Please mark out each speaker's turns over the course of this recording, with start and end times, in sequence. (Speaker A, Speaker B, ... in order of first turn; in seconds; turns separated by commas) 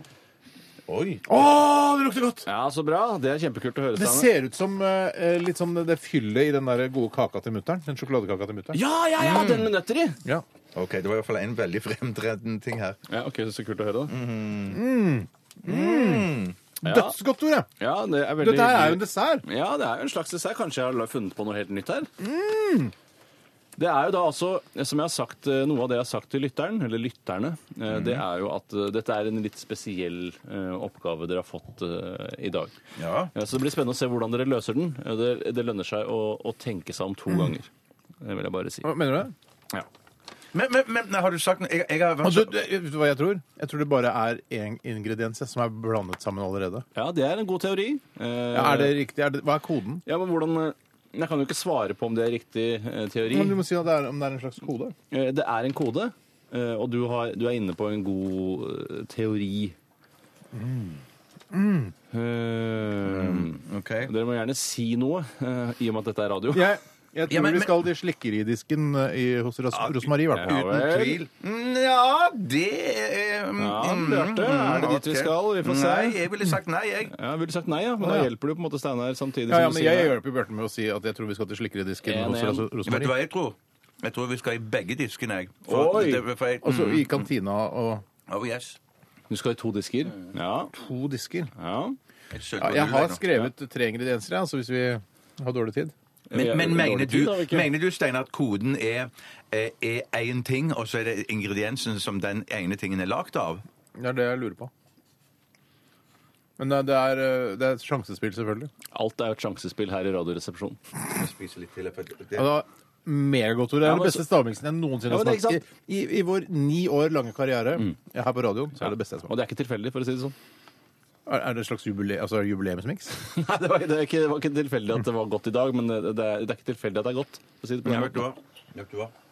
Speaker A: 0.9-1.2, Speaker B: 1.3-2.5, Speaker C: 2.5-4.3, Speaker B: 4.0-8.8, Speaker C: 8.7-10.2, Speaker A: 9.2-9.7, Speaker A: 10.8-13.0, Speaker C: 13.1-14.1, Speaker A: 14.1-14.8, Speaker B: 14.7-17.7, Speaker A: 15.7-16.6, Speaker C: 16.8-17.2, Speaker C: 17.8-22.1, Speaker B: 18.4-19.4, Speaker B: 22.2-22.9, Speaker C: 23.8-32.7, Speaker A: 27.9-28.2, Speaker A: 33.0-33.3, Speaker C: 33.3-37.7, Speaker C: 38.2-38.9, Speaker B: 38.8-39.3, Speaker A: 40.5-42.6, Speaker B: 42.2-46.9, Speaker C: 47.0-49.0, Speaker B: 48.5-50.0, Speaker C: 50.1-53.6, Speaker B: 53.2-54.9, Speaker C: 55.1-59.8, Speaker B: 60.5-61.9, Speaker C: 62.1-66.7, Speaker A: 63.0-64.1, Speaker B: 66.5-70.6, Speaker A: 67.3-67.8, Speaker A: 69.7-77.1, Speaker C: 70.3-71.2, Speaker C: 73.6-76.2, Speaker C: 77.1-80.2, Speaker B: 78.0-78.3, Speaker B: 79.5-83.2, Speaker C: 82.0-82.7, Speaker A: 82.8-87.3, Speaker C: 85.7-86.2, Speaker B: 86.6-88.0, Speaker A: 88.3-88.8, Speaker C: 89.3-90.7, Speaker B: 90.7-91.5, Speaker C: 91.6-92.0, Speaker A: 92.3-93.2, Speaker B: 92.6-95.9, Speaker C: 96.3-97.7, Speaker A: 96.3-103.6, Speaker B: 104.0-104.7, Speaker B: 106.6-108.7, Speaker C: 108.9-110.8, Speaker A: 111.1-112.5, Speaker B: 112.3-119.3, Speaker C: 113.8-114.3, Speaker C: 115.1-115.6, Speaker C: 118.8-120.3, Speaker B: 121.3-123.2, Speaker C: 123.3-128.2, Speaker A: 127.8-129.1